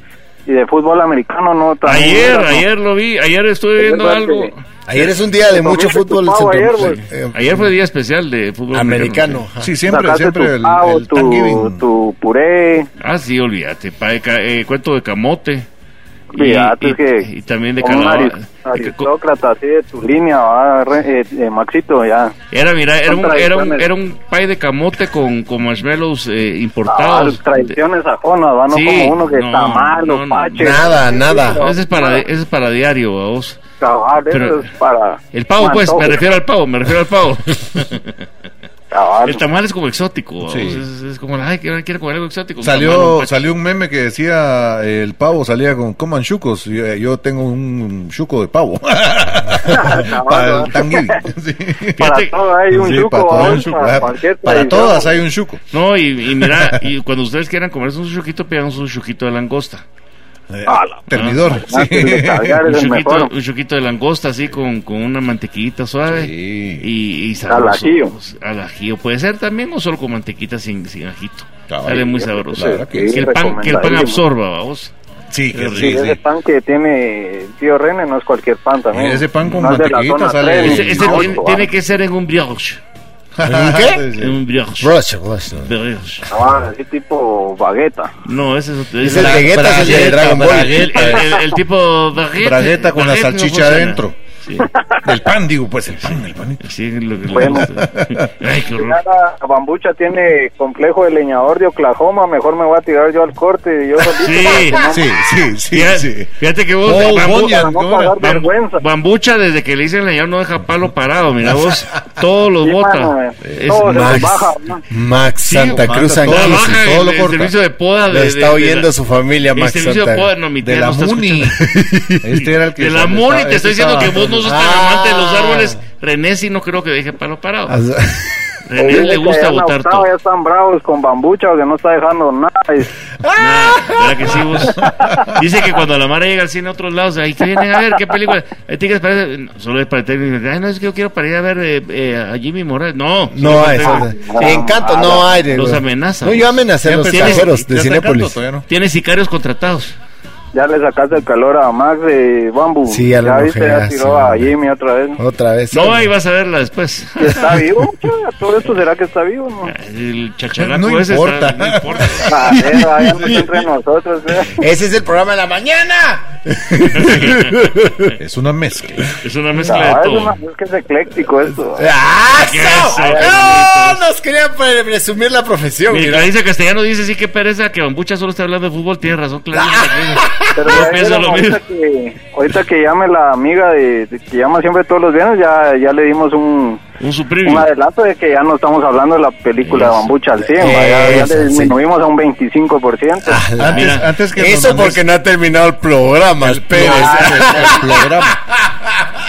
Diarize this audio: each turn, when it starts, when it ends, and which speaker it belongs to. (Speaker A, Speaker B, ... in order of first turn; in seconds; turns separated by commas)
Speaker A: 0.5-2.6, Speaker B: 1.8-4.6, Speaker A: 3.8-4.5, Speaker C: 4.9-7.7, Speaker A: 5.5-7.0, Speaker B: 7.3-9.4, Speaker C: 8.7-9.7, Speaker D: 9.6-11.8, Speaker A: 9.9-12.9, Speaker B: 13.0-15.7, Speaker A: 16.3-17.3, Speaker B: 16.4-19.1, Speaker A: 17.8-22.3, Speaker B: 22.5-27.7, Speaker A: 23.1-23.9, Speaker A: 26.9-32.2, Speaker B: 28.7-30.9, Speaker C: 30.6-31.6, Speaker B: 31.5-33.6, Speaker A: 33.8-36.2, Speaker B: 34.3-34.7, Speaker B: 35.3-38.2, Speaker A: 38.9-39.4, Speaker B: 39.2-43.4, Speaker D: 40.4-40.8, Speaker D: 42.6-52.0, Speaker A: 49.6-51.2, Speaker B: 52.0-52.3, Speaker A: 52.0-55.1, Speaker D: 52.7-55.6, Speaker B: 55.7-59.8, Speaker D: 56.3-56.8, Speaker D: 60.5-62.7, Speaker A: 60.6-63.3, Speaker B: 61.1-61.6, Speaker B: 62.6-74.9, Speaker D: 66.1-66.9, Speaker A: 67.5-68.1, Speaker D: 71.7-73.2, Speaker A: 71.9-74.2, Speaker D: 75.3-76.2, Speaker B: 75.5-76.0, Speaker A: 75.7-81.7, Speaker D: 78.9-81.5, Speaker B: 80.6-82.8, Speaker D: 83.4-84.4, Speaker C: 83.4-84.1, Speaker B: 84.2-84.9, Speaker C: 84.8-85.7, Speaker B: 85.5-86.3, Speaker A: 86.3-88.1, Speaker B: 88.2-94.7, Speaker C: 89.0-91.1, Speaker D: 89.1-91.5, Speaker D: 92.4-94.2, Speaker D: 95.0-96.6, Speaker B: 96.0-99.0, Speaker D: 97.3-98.3, Speaker A: 97.3-97.7, Speaker A: 98.8-105.0, Speaker B: 104.2-104.8, Speaker D: 104.9-106.3, Speaker B: 105.7-107.7, Speaker D: 106.8-108.2, Speaker A: 107.2-108.8, Speaker B: 108.2-114.3, Speaker A: 112.6-114.8, Speaker D: 113.4-113.7, Speaker C: 113.8-116.9, Speaker B: 115.4-118.9, Speaker D: 115.8-117.5, Speaker C: 118.1-120.3, Speaker B: 119.5-121.6, Speaker D: 120.6-121.7, Speaker C: 121.6-122.4, Speaker D: 122.2-124.5, Speaker B: 122.4-127.8, Speaker C: 124.4-125.8, Speaker C: 127.7-128.3, Speaker B: 128.7-130.1, Speaker A: 128.8-132.9, Speaker C: 133.2-134.3, Speaker B: 133.3-144.6, Speaker D: 134.8-135.3, Speaker C: 143.3-148.4, Speaker A: 143.8-145.3, Speaker B: 145.5-146.6, Speaker D: 146.8-148.7, Speaker B: 147.1-147.5, Speaker B: 148.7-149.9, Speaker A: 150.5-155.2, Speaker C: 152.9-154.5, Speaker C: 155.2-156.1, Speaker B: 155.7-157.7, Speaker A: 157.2-159.7, Speaker B: 159.7-162.5, Speaker D: 160.6-163.4, Speaker A: 162.3-164.6, Speaker C: 164.5-168.1, Speaker B: 166.9-167.5, Speaker D: 168.2-169.1, Speaker B: 169.2-170.3, Speaker A: 169.7-171.8, Speaker C: 171.8-176.3, Speaker B: 172.3-174.0, Speaker A: 172.9-173.4, Speaker B: 175.9-181.6, Speaker C: 179.5-180.7, Speaker A: 180.5-186.8, Speaker B: 187.0-187.7, Speaker A: 187.4-193.4, Speaker B: 189.7-190.0, Speaker C: 190.5-191.8, Speaker C: 193.2-198.5, Speaker D: 193.6-195.0, Speaker B: 193.7-194.1, Speaker D: 196.4-198.4